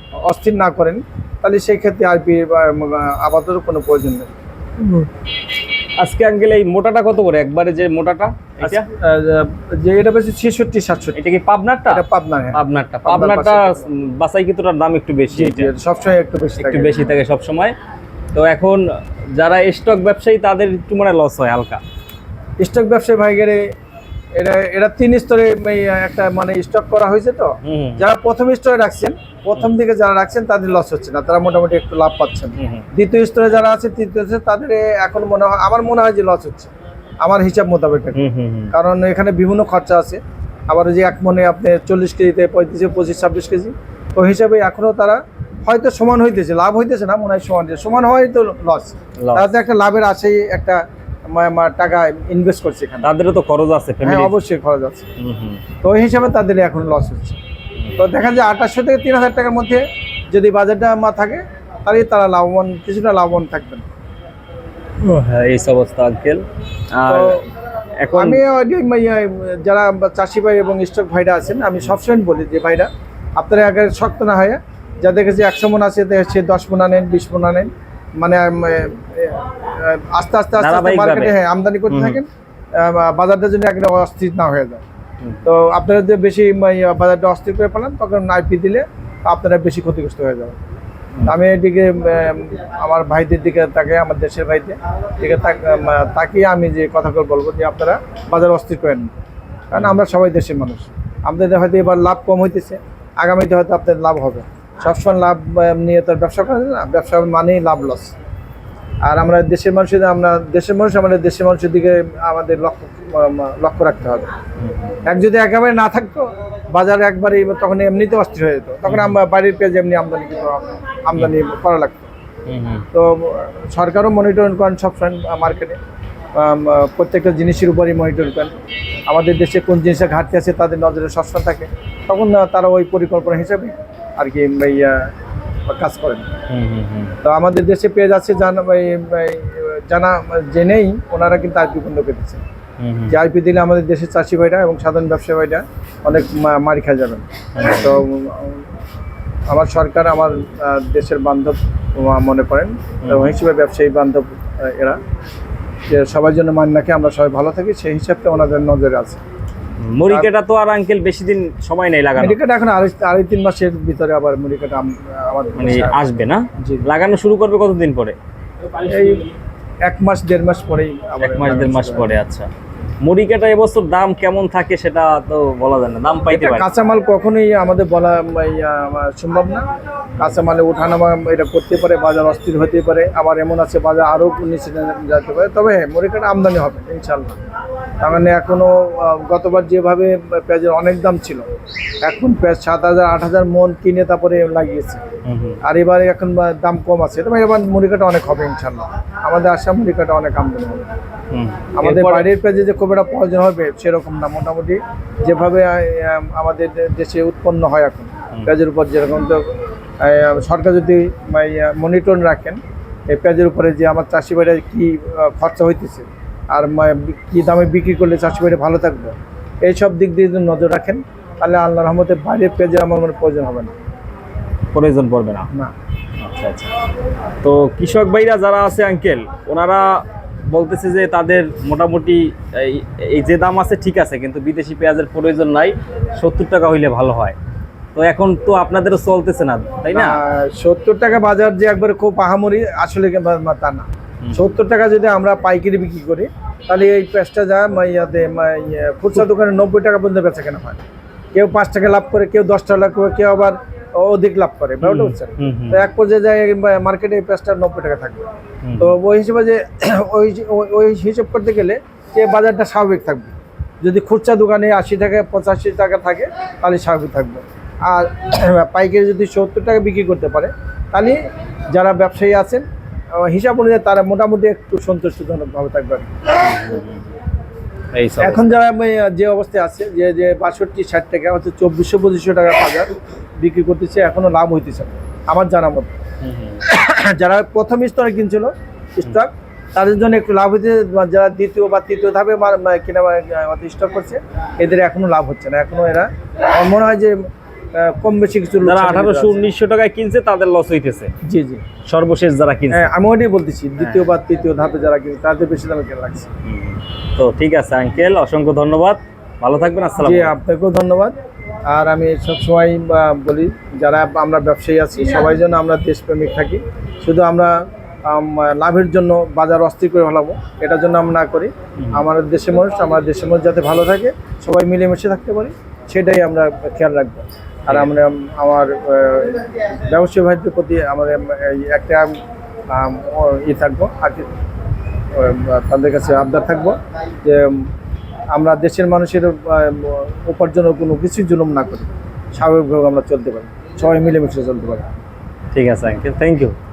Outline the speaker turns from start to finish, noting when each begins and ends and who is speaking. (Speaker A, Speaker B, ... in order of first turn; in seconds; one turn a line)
Speaker A: 0.2-4.3
Speaker B: 6.0-8.9
Speaker A: 8.6-11.2
Speaker B: 11.1-12.0
Speaker A: 11.9-13.8
Speaker B: 12.5-15.7
Speaker A: 15.3-17.0
Speaker B: 16.6-17.7
Speaker B: 18.3-18.8
Speaker B: 19.3-21.8
Speaker A: 22.6-23.7
Speaker A: 24.3-36.7
Speaker B: 27.6-28.0
Speaker B: 32.6-32.9
Speaker A: 37.2-38.2
Speaker B: 38.1-38.7
Speaker A: 38.7-53.1
Speaker B: 49.2-49.5
Speaker B: 53.0-54.3
Speaker A: 54.0-55.0
Speaker B: 55.2-55.6
Speaker A: 55.8-57.4
Speaker A: 58.0-63.8
Speaker B: 65.0-67.4
Speaker A: 67.1-67.4
Speaker B: 68.0-68.4
Speaker A: 68.1-84.8
Speaker B: 80.6-81.3
Speaker B: 81.9-82.2
Speaker A: 85.4-90.6
Speaker A: 91.2-99.1
Speaker A: 99.7-108.1
Speaker A: 109.0-114.2
Speaker B: 114.6-115.0
Speaker A: 115.0-122.1
Speaker B: 118.9-119.2
Speaker B: 122.5-122.8
Speaker A: 122.9-125.8
Speaker A: 126.3-128.5
Speaker A: 129.1-135.1
Speaker A: 135.7-136.3
Speaker B: 136.5-137.2
Speaker A: 137.2-142.4
Speaker B: 142.8-143.1
Speaker A: 143.1-148.6
Speaker B: 147.5-147.9
Speaker A: 149.5-155.0
Speaker B: 153.0-153.3
Speaker A: 155.9-159.2
Speaker B: 159.8-162.4
Speaker A: 162.2-166.0
Speaker B: 165.6-168.2
Speaker A: 166.6-166.8
Speaker A: 168.8-169.2
Speaker A: 169.8-172.1
Speaker B: 171.2-172.5
Speaker B: 173.0-176.7
Speaker A: 176.3-179.6
Speaker A: 180.2-187.4
Speaker A: 188.0-191.4
Speaker A: 192.0-195.0
Speaker B: 195.3-195.6
Speaker A: 195.6-200.9
Speaker B: 201.3-202.2
Speaker A: 201.8-209.4
Speaker A: 210.0-223.7
Speaker B: 224.7-225.5
Speaker B: 226.2-226.7
Speaker B: 227.4-237.3
Speaker B: 237.9-240.2
Speaker A: 239.9-250.8
Speaker B: 244.2-244.5
Speaker A: 251.3-258.2
Speaker B: 254.8-255.8
Speaker B: 258.6-258.9
Speaker A: 258.8-271.2
Speaker A: 271.7-272.6
Speaker A: 273.1-276.2
Speaker B: 276.4-277.0
Speaker B: 277.9-278.5
Speaker A: 278.2-285.9
Speaker B: 286.2-286.6
Speaker A: 286.6-297.2
Speaker A: 297.7-299.4
Speaker B: 298.6-301.1
Speaker A: 301.3-301.6
Speaker B: 301.9-302.9
Speaker A: 302.7-306.3
Speaker B: 306.4-310.3
Speaker A: 310.0-311.1
Speaker A: 311.7-317.5
Speaker A: 318.1-332.1
Speaker B: 321.8-322.1
Speaker B: 327.7-327.9
Speaker A: 332.7-334.3
Speaker A: 335.1-337.6
Speaker A: 338.3-344.8
Speaker B: 345.5-346.5